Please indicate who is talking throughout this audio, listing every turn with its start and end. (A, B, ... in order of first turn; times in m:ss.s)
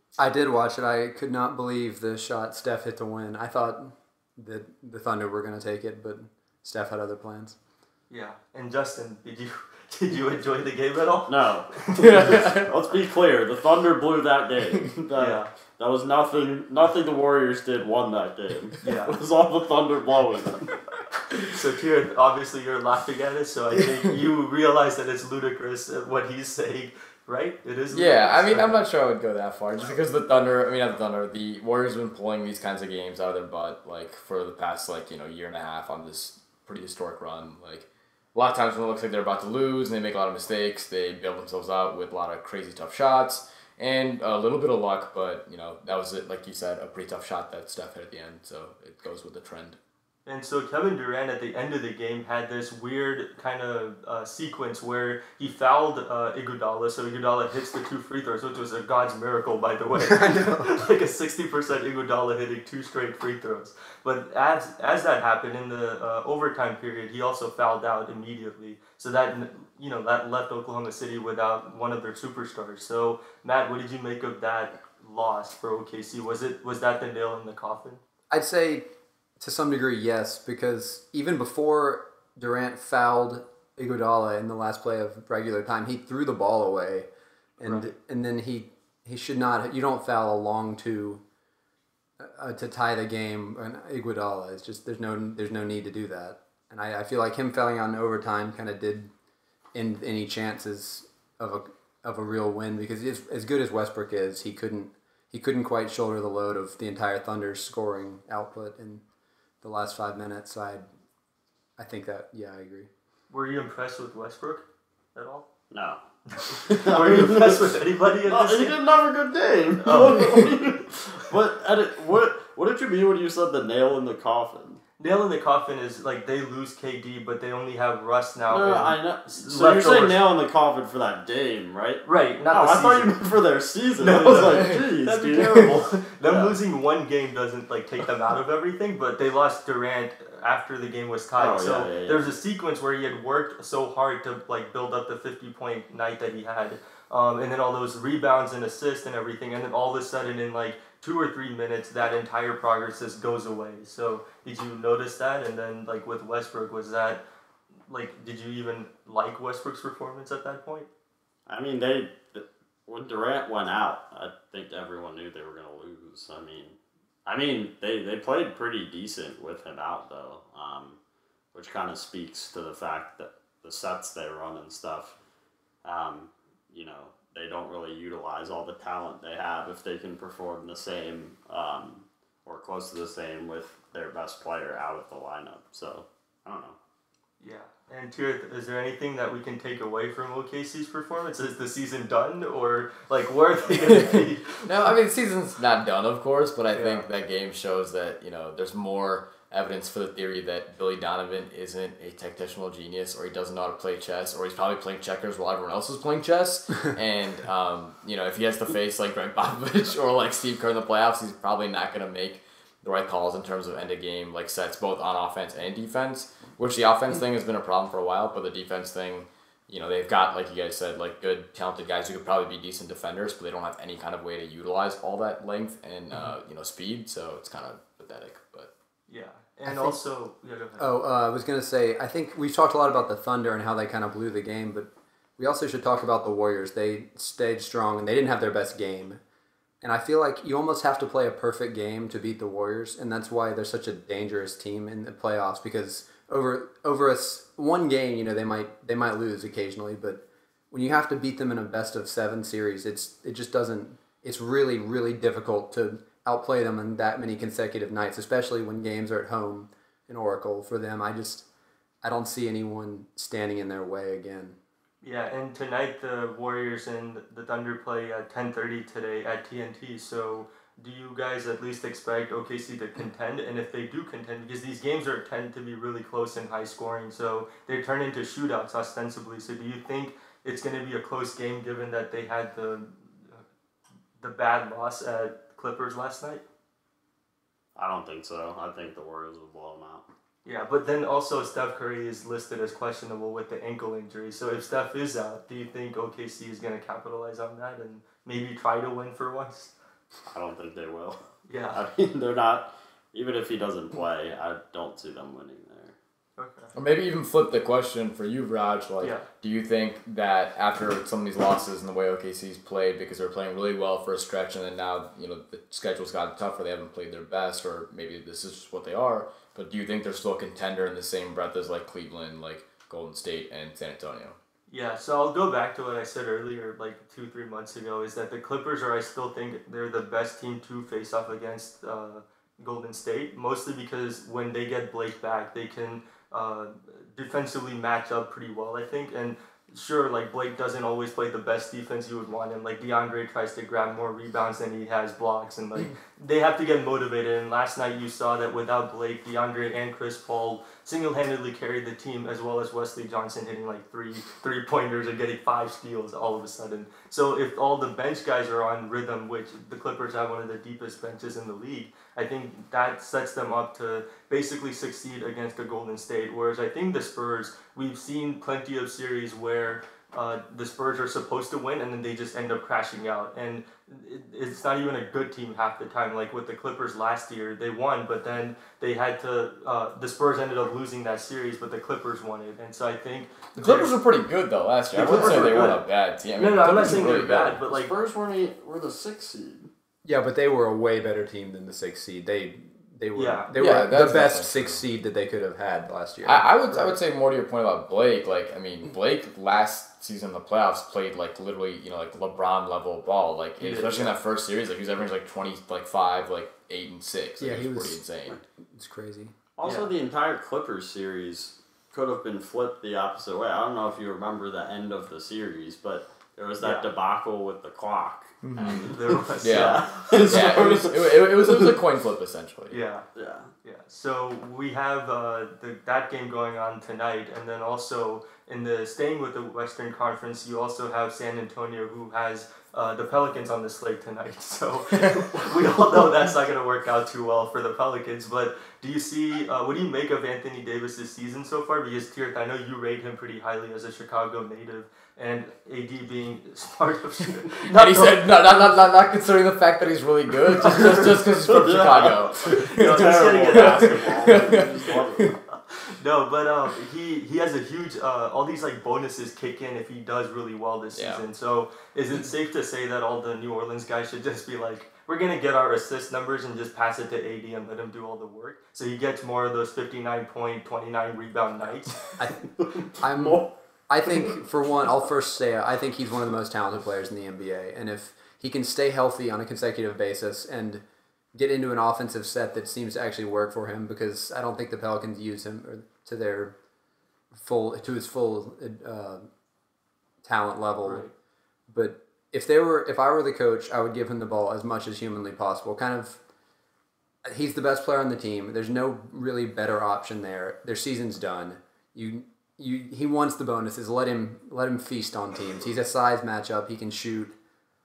0:00.2-0:07.6 A
0:08.1-0:12.4 B
0:11.3-0:20.7 C
0:12.0-0:12.7 D
0:15.2-0:15.5 B
0:18.8-0:19.2 B
0:21.4-0:28.8 B
0:27.9-0:49.8 D
0:50.3-1:18.0 B
1:00.0-1:00.7 A
1:18.3-1:18.8 A
1:19.4-1:27.1 A
1:27.6-1:31.2 A
1:27.6-1:27.9 B
1:32.2-1:39.1 A
1:39.7-1:49.0 A
1:49.6-1:50.9 A
1:51.8-1:52.9 A
1:53.3-1:55.4 B
1:55.7-2:04.8 C
1:56.5-1:58.8 B
1:59.8-2:00.3 B
2:05.0-2:10.2 B
2:08.5-2:16.6 C
2:12.0-2:13.1 B
2:14.0-2:37.2 B
2:21.4-2:22.3 C
2:37.9-2:40.9 B
2:41.5-2:51.0 C
2:51.5-2:55.2 C
2:55.8-3:06.8 C
3:07.4-3:14.6 B
3:13.9-3:48.7 D
3:16.8-3:17.0 B
3:49.1-3:50.9 B
3:49.7-3:50.0 A
3:50.8-3:59.2 A
3:59.8-4:21.5 A
4:22.0-4:24.6 A
4:25.0-4:43.4 B
4:44.2-4:46.4 B
4:47.8-4:50.1 C
4:50.4-4:59.7 B
5:00.3-5:06.0 C
5:01.5-5:01.8 B
5:06.4-5:06.7 B
5:06.8-5:24.4 D
5:09.0-5:09.3 B
5:24.7-6:24.0 B
6:23.6-6:27.6 D
6:24.9-6:25.8 B
6:25.0-6:25.8 C
6:26.4-6:27.9 B
6:27.7-6:29.7 C
6:30.0-6:36.9 A
6:33.2-6:33.5 B
6:33.6-6:34.8 D
6:36.2-6:48.4 D
6:43.6-6:44.2 B
6:47.4-6:48.0 A
6:48.7-6:49.4 A
6:49.6-7:01.7 C
6:49.6-6:49.9 B
6:56.6-6:56.9 B
6:58.4-7:02.8 D
6:58.9-7:00.5 B
7:02.7-7:03.1 B
7:03.2-7:03.5 C
7:03.6-7:28.3 B
7:27.7-7:35.3 D
7:30.6-7:31.2 B
7:31.5-7:35.4 C
7:32.5-7:52.0 B
7:41.0-7:41.2 D
7:52.2-7:52.4 A
7:52.4-7:53.5 C
7:53.0-8:00.8 A
8:01.4-8:06.6 A
8:07.3-8:09.2 A
8:10.2-8:11.1 A
8:10.8-8:11.1 B
8:11.7-8:16.2 A
8:17.2-8:27.4 A